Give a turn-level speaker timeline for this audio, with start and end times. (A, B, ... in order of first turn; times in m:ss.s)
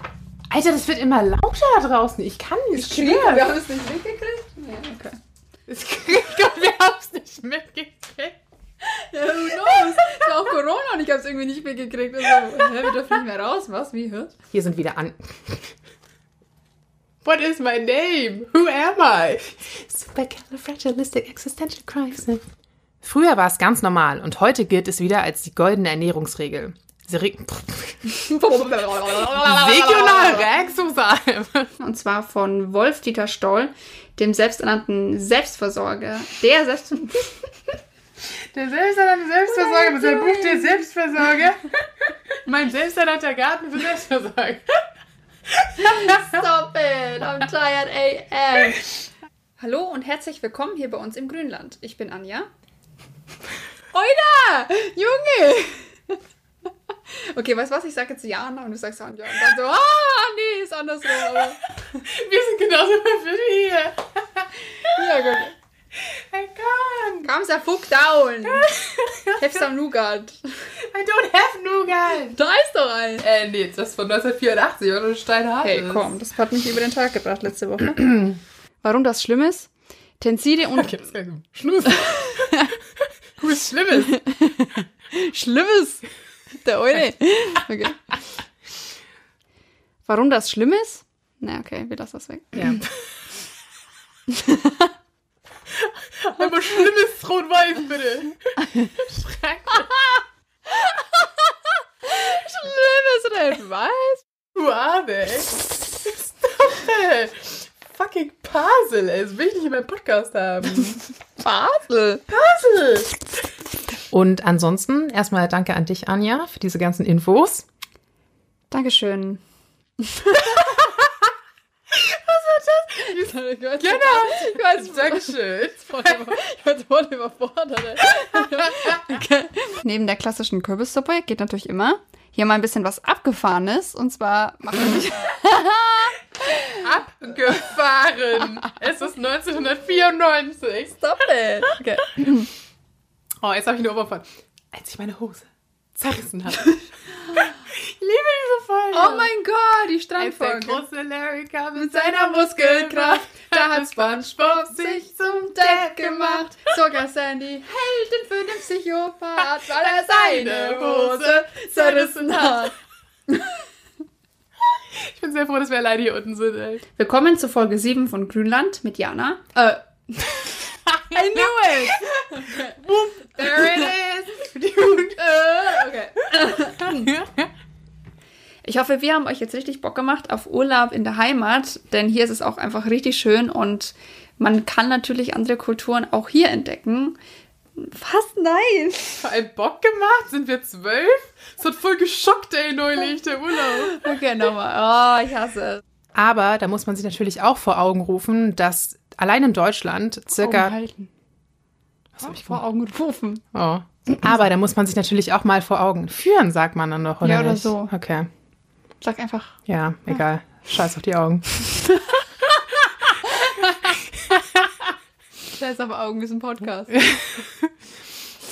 0:00.5-0:03.6 A
0:02.8-0:05.2 B
0:05.7-0:08.4 A
0:08.8-0:14.4 B
0:09.7-0:10.1 A
0:14.5-0:15.7 A
0:17.2-0:22.4 A
0:23.0-0:28.2 A
0:28.1-0:30.5 B
0:29.1-0:31.7 A
0:31.8-0:37.4 B
0:38.5-0:44.6 A
0:39.7-0:40.8 B
0:45.6-0:46.1 A
0:45.8-0:49.0 B
0:49.6-0:52.5 B
0:53.9-0:56.2 B
0:57.1-1:01.6 B
1:01.2-1:05.4 A
1:04.7-1:05.6 B
1:05.9-1:07.3 A
1:07.2-1:08.7 B
1:08.4-1:09.8 A
1:09.3-1:10.4 B
1:10.8-1:12.4 A
1:12.3-1:13.2 B
1:13.2-1:16.1 A
1:15.6-1:21.0 B
1:20.7-1:22.7 A
1:21.9-1:22.7 B
1:23.4-1:24.3 A
1:23.9-1:26.0 B
1:26.6-1:28.1 B
1:30.0-1:32.9 B
1:32.5-1:32.9 A
1:34.3-1:34.9 B
1:35.7-1:40.2 A
1:40.7-1:41.5 B
1:42.0-1:44.2 B
1:44.5-1:51.0 A
1:51.4-1:52.2 B
1:52.3-1:53.2 A
1:54.1-1:57.7 A
1:58.7-1:59.4 B
2:00.0-2:00.9 B
2:00.7-2:01.1 A
2:01.9-2:06.4 A
2:02.9-2:16.8 B
2:08.4-2:09.0 A
2:16.7-2:21.0 A
2:21.0-2:22.5 B
2:23.4-2:29.3 A
2:28.9-2:30.8 B
2:30.2-2:36.7 A
2:31.8-2:42.8 B
2:39.4-2:42.7 A
2:43.3-2:43.6 B
2:44.6-2:46.8 A
2:47.0-2:50.6 B
2:50.4-2:57.5 A
2:51.1-2:52.8 B
2:53.4-2:53.9 B
2:54.9-2:57.1 B
2:58.6-3:07.2 B
3:07.8-3:09.2 B
3:09.2-3:14.1 A
3:13.7-3:15.8 B
3:16.2-3:20.7 A
3:20.4-3:21.1 B
3:22.2-3:22.6 A
3:22.2-3:23.4 B
3:23.5-3:28.3 A
3:27.2-3:27.9 B
3:29.0-3:29.6 B
3:29.7-3:31.7 A
3:33.1-3:33.9 B
3:34.3-3:34.6 A
3:35.5-3:37.2 B
3:37.1-3:37.5 A